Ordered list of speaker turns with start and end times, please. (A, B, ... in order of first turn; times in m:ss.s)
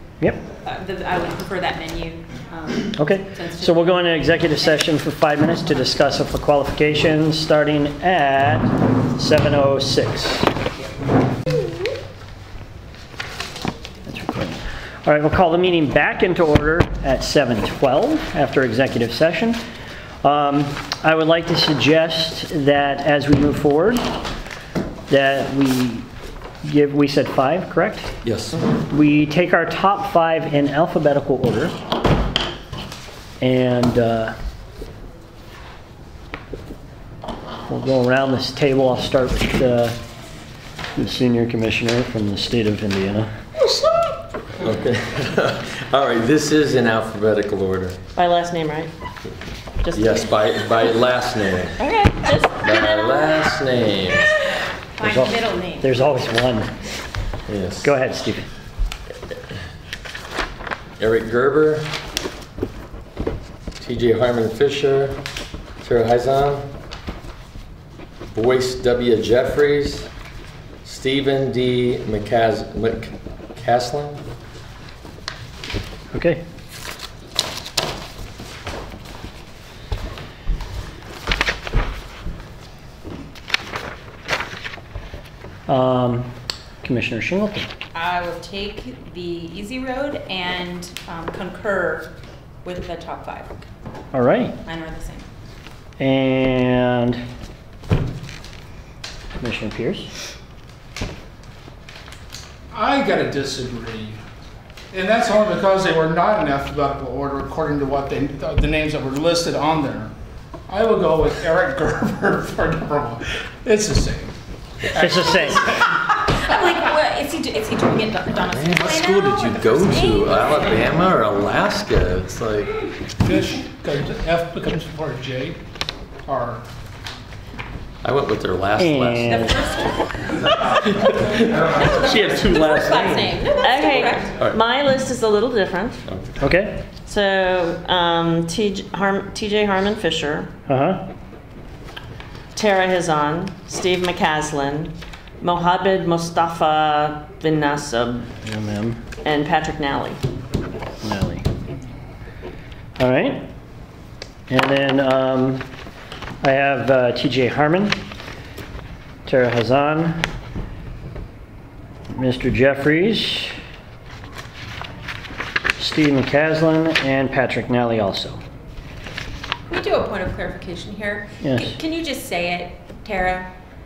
0:00.6-0:04.8 A
0:03.0-0:10.5 B
0:14.1-0:19.6 B
0:20.2-0:24.0 B
0:25.1-0:26.1 B
0:26.6-0:28.1 B
0:28.2-0:28.6 C
0:28.9-0:31.8 B
0:33.4-0:34.4 B
0:37.7-0:40.0 B
0:41.0-0:43.3 B
0:44.6-0:48.0 C
0:48.2-0:48.9 D
0:49.8-0:50.4 D
0:49.9-0:51.8 C
0:51.8-0:53.5 D
0:52.6-0:54.3 C
0:54.7-0:56.0 A
0:55.0-0:56.7 B
0:57.5-0:57.9 C
0:57.8-0:58.5 B
1:01.0-1:01.9 C
1:03.8-1:05.2 C
1:05.8-1:06.6 C
1:08.3-1:10.1 C
1:10.8-1:14.2 C
1:16.1-1:16.4 B
1:25.7-1:26.3 B
1:26.8-1:27.7 B
1:27.9-1:33.7 A
1:34.1-1:34.6 B
1:34.6-1:35.3 A
1:36.0-1:37.2 B
1:39.4-1:40.1 B
1:42.7-1:44.2 E
1:44.9-1:50.1 E
1:50.7-1:54.3 E
1:54.9-1:56.0 E
1:55.0-1:55.7 B
1:55.7-2:00.8 A
1:58.5-2:02.8 C
2:03.2-2:05.6 E
2:06.3-2:06.6 E
2:08.0-2:09.8 C
2:08.8-2:09.6 B
2:10.6-2:13.4 C
2:11.6-2:14.4 A
2:13.6-2:16.0 D
2:16.1-2:16.4 C
2:16.4-2:16.8 B
2:17.1-2:20.5 D
2:20.7-2:21.0 B
2:22.6-2:28.3 D
2:28.4-2:29.0 B
2:29.2-2:30.2 D
2:31.0-2:31.4 B
2:33.0-2:33.5 B
2:34.5-2:35.6 B
2:36.4-2:38.0 B
2:39.3-2:40.2 B
2:42.1-2:43.5 B
2:45.8-2:48.4 B
2:49.7-2:53.5 A
2:51.4-2:51.8 B